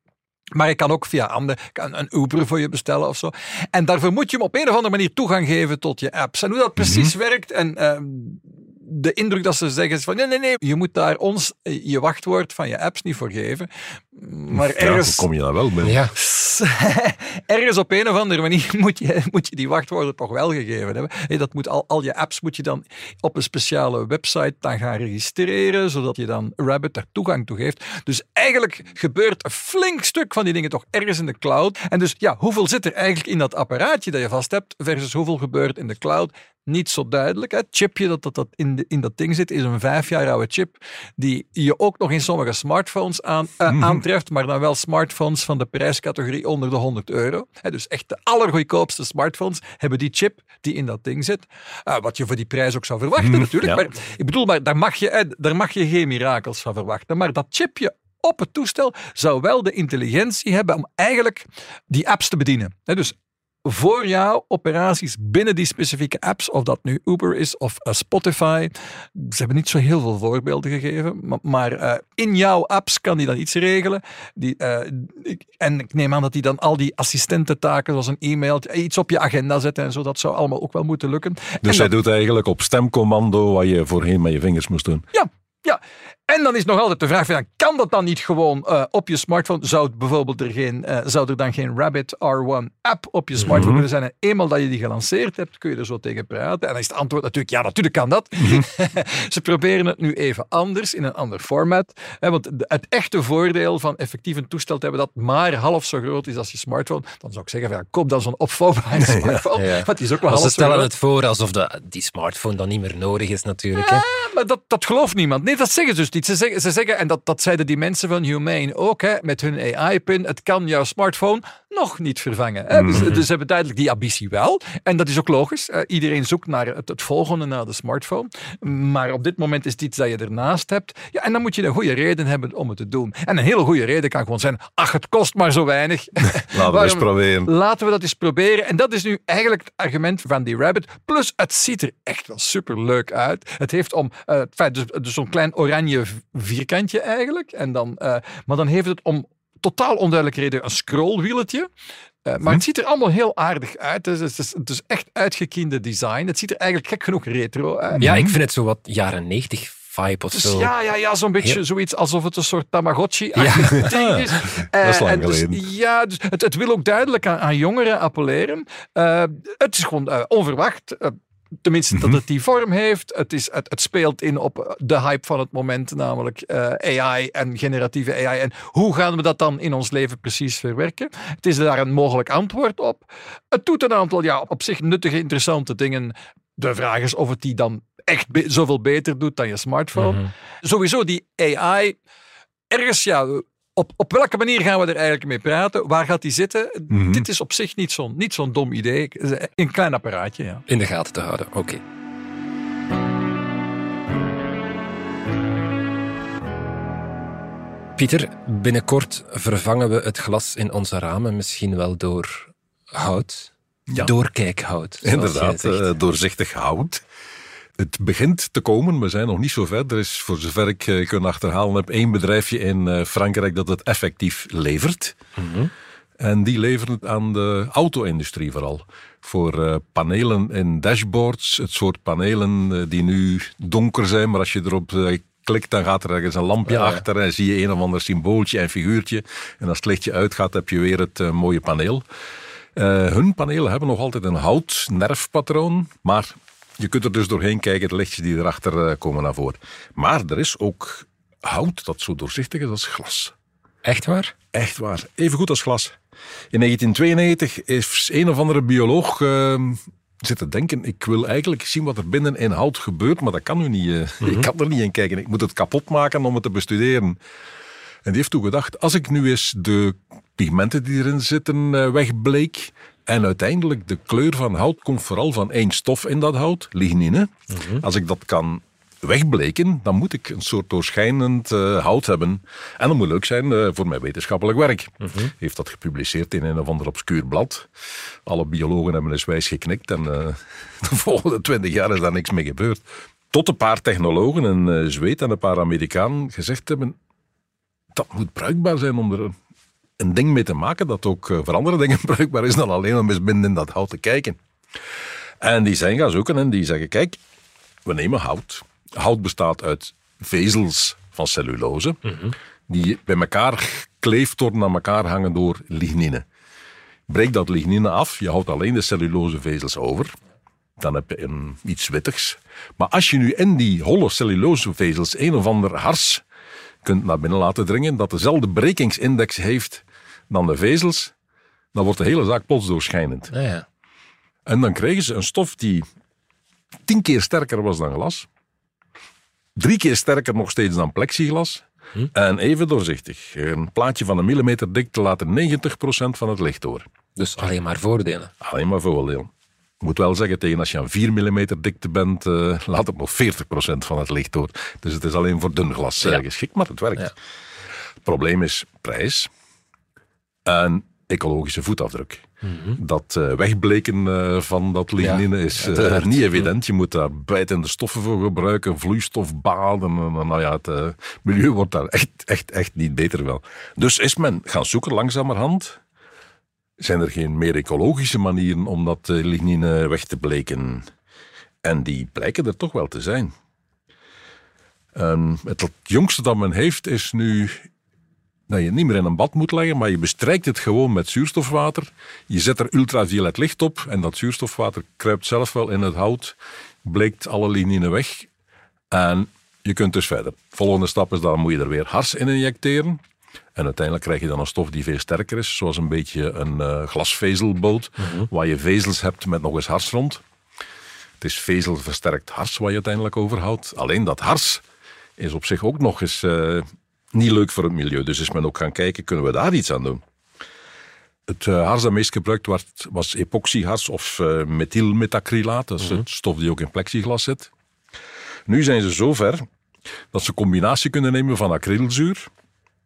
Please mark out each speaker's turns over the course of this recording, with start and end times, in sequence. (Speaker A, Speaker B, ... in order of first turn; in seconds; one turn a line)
Speaker A: 0.5-15.3
Speaker B: 6.8-7.1
Speaker B: 14.5-16.0
Speaker C: 15.8-16.1
Speaker A: 16.1-81.9
Speaker B: 43.7-44.0
Speaker B: 53.2-53.8
Speaker B: 81.6-85.1
Speaker A: 85.1-110.9
Speaker B: 93.5-93.8
Speaker B: 109.1-109.4
Speaker C: 109.6-114.0
Speaker A: 113.8-151.7
Speaker B: 122.7-123.2
Speaker B: 136.5-137.5
Speaker A: 152.2-158.1
Speaker B: 158.0-158.4
Speaker C: 158.0-160.7
Speaker A: 160.3-191.9
Speaker C: 163.4-163.8
Speaker B: 163.7-165.6
Speaker B: 171.9-172.2
Speaker C: 190.0-190.3
Speaker A: 192.7-200.6
Speaker B: 196.9-197.3
Speaker C: 200.7-201.8
Speaker C: 208.0-215.9
Speaker B: 215.0-217.0
Speaker B: 217.8-225.2
Speaker C: 225.4-225.7
Speaker B: 226.2-242.0
Speaker C: 236.7-237.0
Speaker B: 242.8-253.3
Speaker C: 253.8-254.3
Speaker B: 254.5-255.9
Speaker B: 256.5-267.2
Speaker B: 268.1-287.7
Speaker C: 277.5-277.8
Speaker C: 285.0-285.3
Speaker B: 288.3-297.0
Speaker B: 297.9-299.4
Speaker B: 300.0-304.4
Speaker B: 305.4-307.2
Speaker B: 307.9-316.2
Speaker B: 317.1-320.1
Speaker B: 320.8-326.2
Speaker B: 326.8-331.1
Speaker B: 331.7-333.3
Speaker C: 333.3-333.7
Speaker B: 334.5-335.9
Speaker B: 336.9-338.3
Speaker B: 339.6-346.9
Speaker C: 347.2-348.3
Speaker B: 348.4-349.3
Speaker B: 349.8-357.1
Speaker B: 358.1-359.3
Speaker B: 360.5-375.8
Speaker C: 362.4-362.8
Speaker C: 365.0-366.1
Speaker B: 376.8-380.9
Speaker B: 381.6-383.3
Speaker B: 384.9-387.7
Speaker B: 388.5-398.3
Speaker B: 398.9-403.0
Speaker B: 403.6-410.2
Speaker C: 408.0-408.3
Speaker B: 411.2-414.6
Speaker B: 415.2-420.0
Speaker B: 421.3-427.5
Speaker B: 428.5-429.4
Speaker B: 430.1-432.3